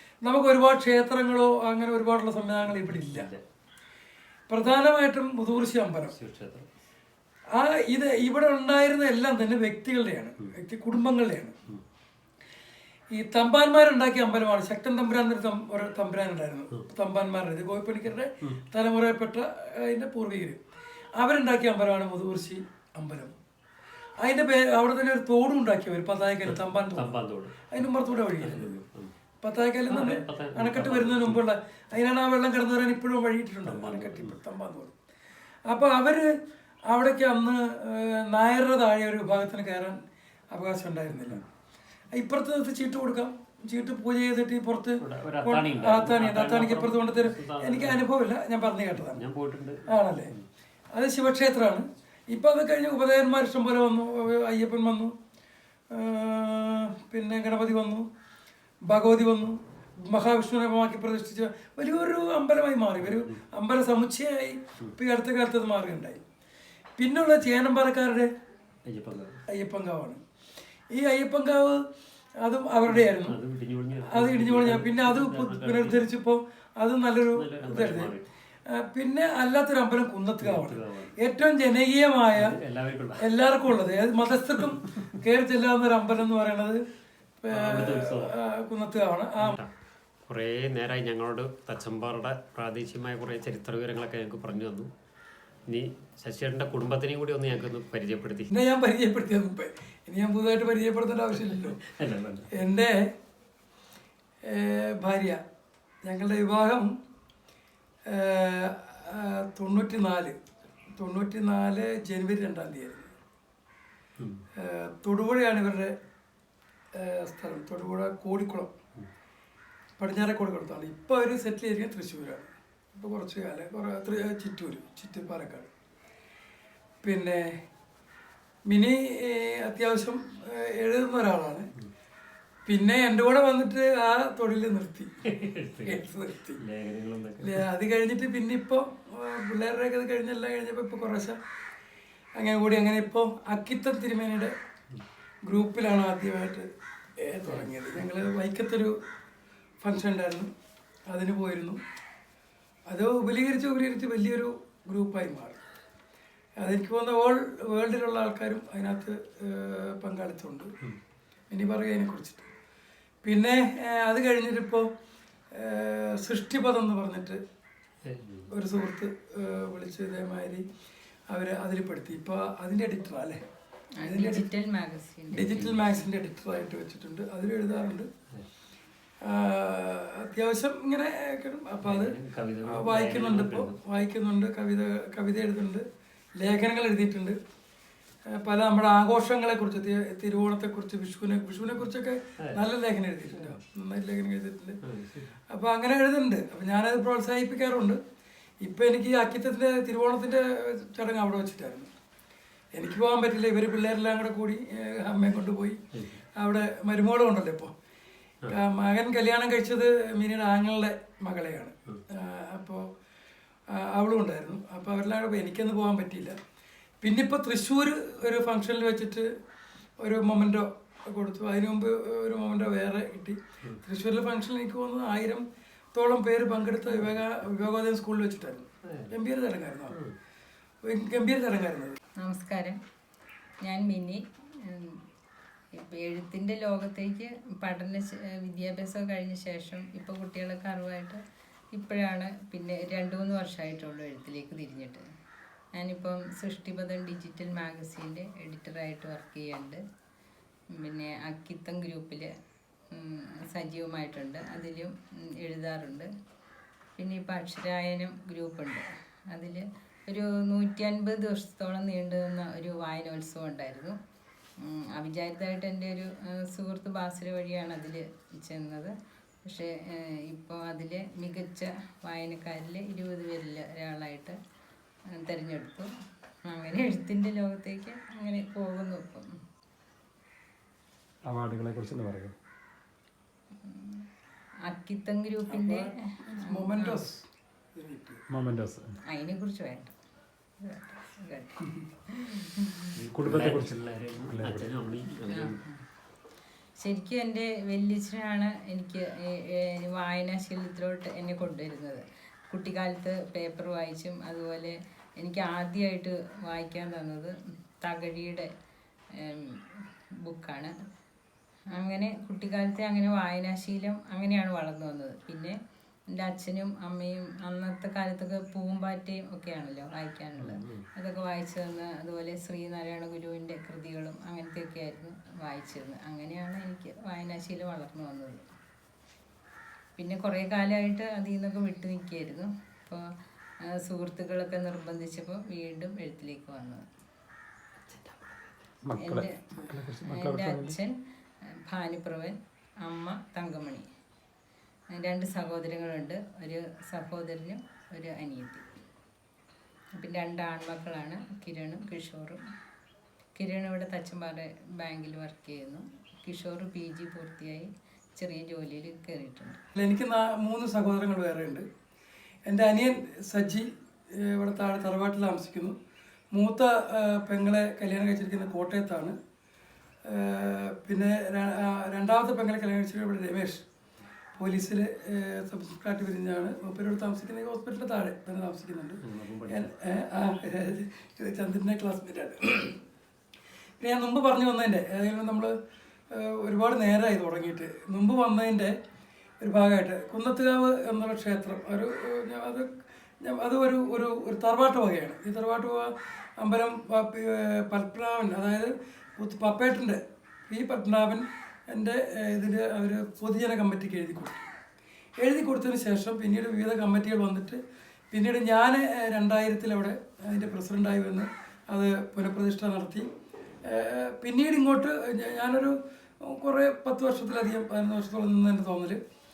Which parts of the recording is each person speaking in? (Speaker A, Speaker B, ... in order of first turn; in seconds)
Speaker A: 0.2-3.3, 4.5-6.1, 7.5-11.6, 13.1-20.6, 21.2-23.3, 24.2-28.7, 29.4-34.9, 35.7-36.3, 36.9-40.0, 40.5-41.5, 42.1-49.2, 49.9-50.3, 50.9-55.1, 55.9-58.1, 58.9-66.2, 67.0-68.3, 69.5-70.2, 70.9-71.8, 72.4-73.4, 74.1-78.1, 78.7-82.5, 83.2-86.8, 87.4-89.6, 98.5-101.8, 102.5-103.1, 104.5-105.4, 106.0-106.9, 108.1-110.4, 110.9-113.1, 114.6-116.0, 117.0-118.7, 120.0-125.7, 127.0-127.6, 128.7-131.7, 132.7-135.1, 135.8-136.6, 137.4-141.4, 142.3-144.5, 145.4-146.7, 147.2-148.9, 149.8-150.5, 151.1-151.8, 152.9-155.6, 156.6-160.7, 161.5-162.5, 163.2-164.9, 165.5-167.4, 168.5-170.6, 171.3-173.4, 174.0-174.4, 175.3-178.1, 179.2-185.8, 186.4-187.4, 188.3-194.8, 195.5-198.0, 198.6-201.9, 202.7-205.8, 206.3-207.7, 208.5-212.9, 213.7-216.4, 217.0-219.3, 220.0-229.9, 230.8-232.0, 285.5-288.2, 359.8-361.6, 362.4-365.8, 366.3-369.1, 370.1-373.6, 374.4-382.8, 383.8-385.5, 386.1-388.8, 389.4-392.7, 393.2-404.4, 405.2-413.1, 413.6-419.0
Speaker B: 2.6-3.4, 6.1-6.7, 26.5-27.7, 28.3-29.1, 29.9-31.4, 33.6-34.4, 45.0-48.0, 49.0-50.5, 63.0-63.4, 68.8-69.4, 72.9-76.1, 77.3-78.3, 80.4-81.1, 82.3-83.2, 87.5-88.3, 89.4-89.7, 90.2-94.9, 95.7-98.5, 101.3-102.6, 135.2-136.0, 136.6-137.6, 147.5-147.7, 168.0-168.5, 175.5-175.8, 181.8-183.8, 193.3-193.6, 194.8-195.3, 205.9-206.2, 228.8-229.1, 229.9-230.2, 292.9-295.6, 320.4-320.8, 337.9-338.3, 379.0-379.7
Speaker C: 174.0-175.5, 232.2-232.8, 233.6-235.0, 235.8-241.2, 241.7-245.0, 245.8-249.8, 250.8-252.3, 252.9-256.1, 257.0-263.9, 264.6-268.9, 269.4-269.7, 270.3-274.4, 275.2-275.9, 276.5-279.3, 283.6-284.1, 284.7-287.0, 289.1-289.9, 290.6-292.9, 295.3-295.8, 296.8-308.5, 309.2-310.7, 311.8-315.5, 316.1-328.4, 330.0-333.0, 333.9-336.8, 339.0-339.3, 340.0-340.9, 341.7-343.9, 344.9-348.6, 350.0-352.4, 353.4-359.6
Speaker D: 281.2-282.3, 288.3-289.0, 293.1-294.8, 338.8-340.8